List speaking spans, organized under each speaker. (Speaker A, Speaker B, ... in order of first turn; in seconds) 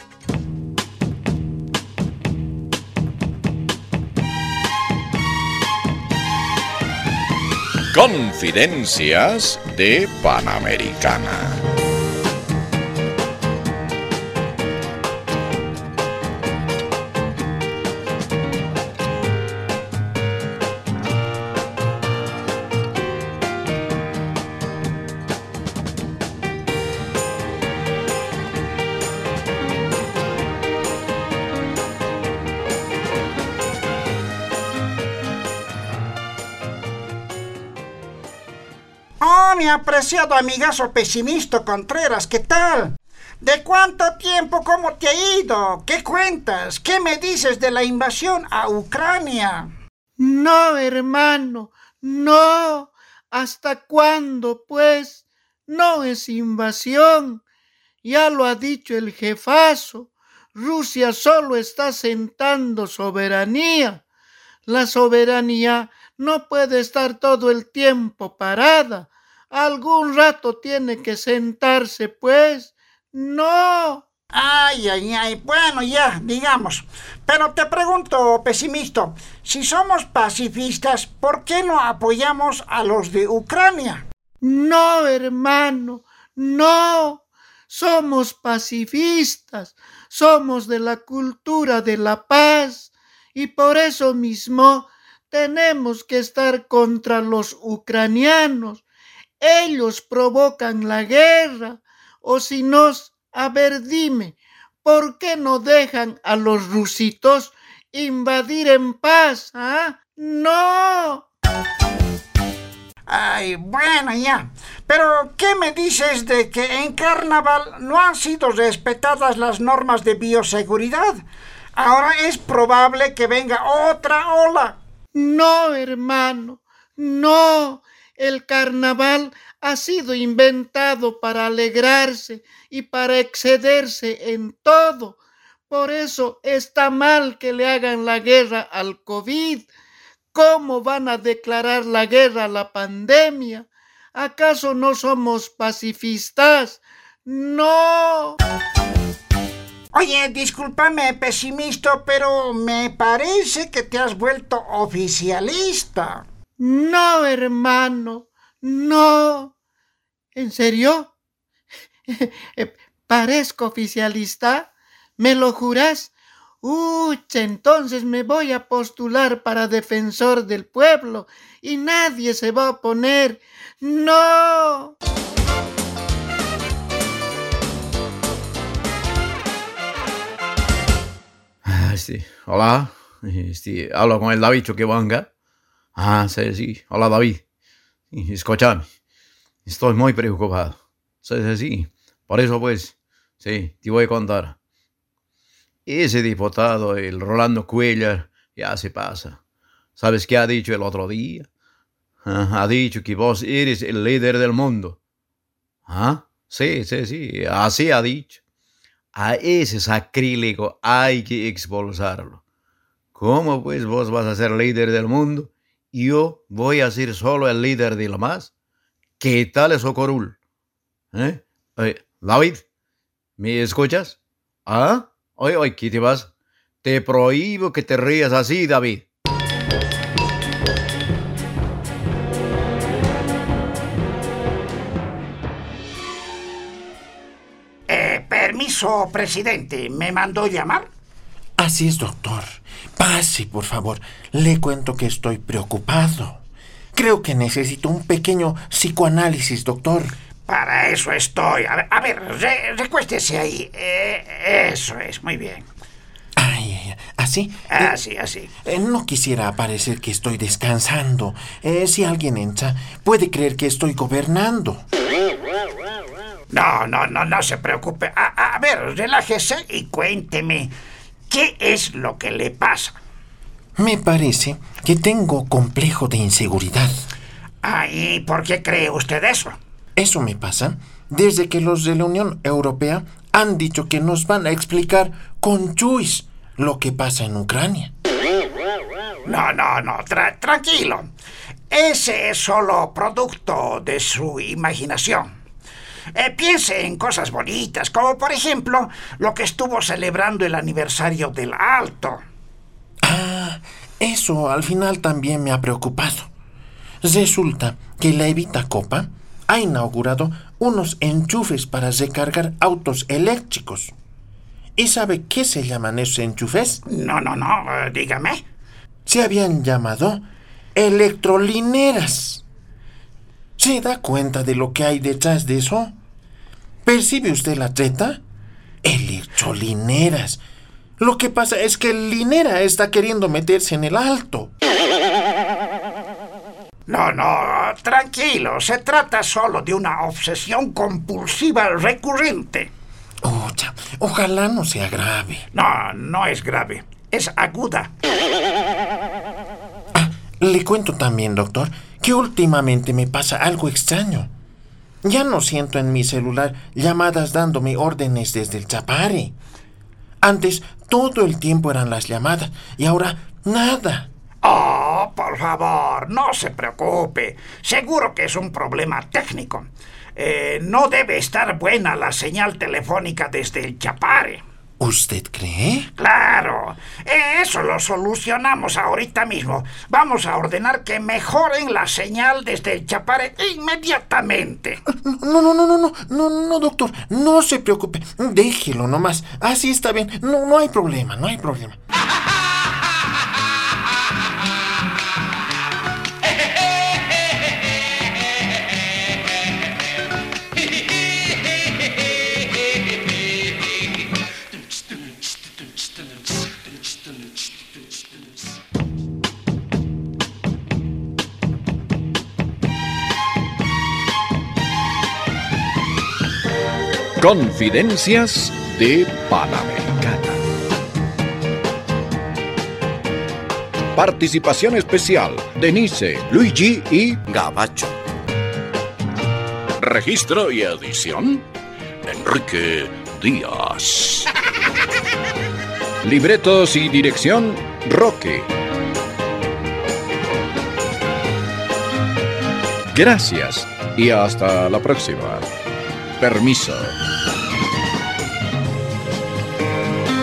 Speaker A: 7.9-11.6, 417.2-420.4, 423.9-428.0, 429.8-431.4, 432.0-434.3, 436.0-438.5, 442.9-445.5, 446.2-447.0
Speaker B: 39.2-49.7, 74.3-84.0, 113.1-121.2, 121.8-124.8, 149.9-156.2, 237.9-240.9, 250.5-255.7, 257.7-258.5, 266.5-270.8, 271.3-273.0, 277.6-279.6, 289.2-291.1, 291.7-295.4, 296.1-302.2, 316.9-318.4, 336.9-342.7, 345.5-347.9, 364.4-374.4, 376.0-384.8
Speaker C: 50.2-57.4, 58.0-64.0, 64.7-74.1, 84.4-98.8, 99.4-111.3, 125.2-135.2, 135.7-139.7, 140.3-148.4, 156.6-159.5, 160.3-161.1, 162.1-166.1, 166.6-174.9
Speaker D: 181.7-185.3, 186.0-187.4, 188.1-188.9, 189.7-194.6, 195.9-199.4, 200.0-201.5, 202.2-205.0, 205.9-208.4, 209.2-212.4, 213.2-218.5, 219.2-220.4, 221.1-222.6, 223.4-226.3, 226.8-229.1
Speaker E: 241.6-246.4, 246.9-250.1, 256.4-258.0, 258.6-264.8, 273.8-277.0, 280.0-287.9, 303.0-306.3, 307.0-313.9, 314.8-316.8, 319.1-320.2, 320.8-322.4, 323.6-325.9, 326.9-328.2, 328.8-330.4, 331.0-334.5, 343.2-345.4, 349.9-354.3, 355.0-359.4, 360.2-364.1, 374.8-375.9, 385.0-391.8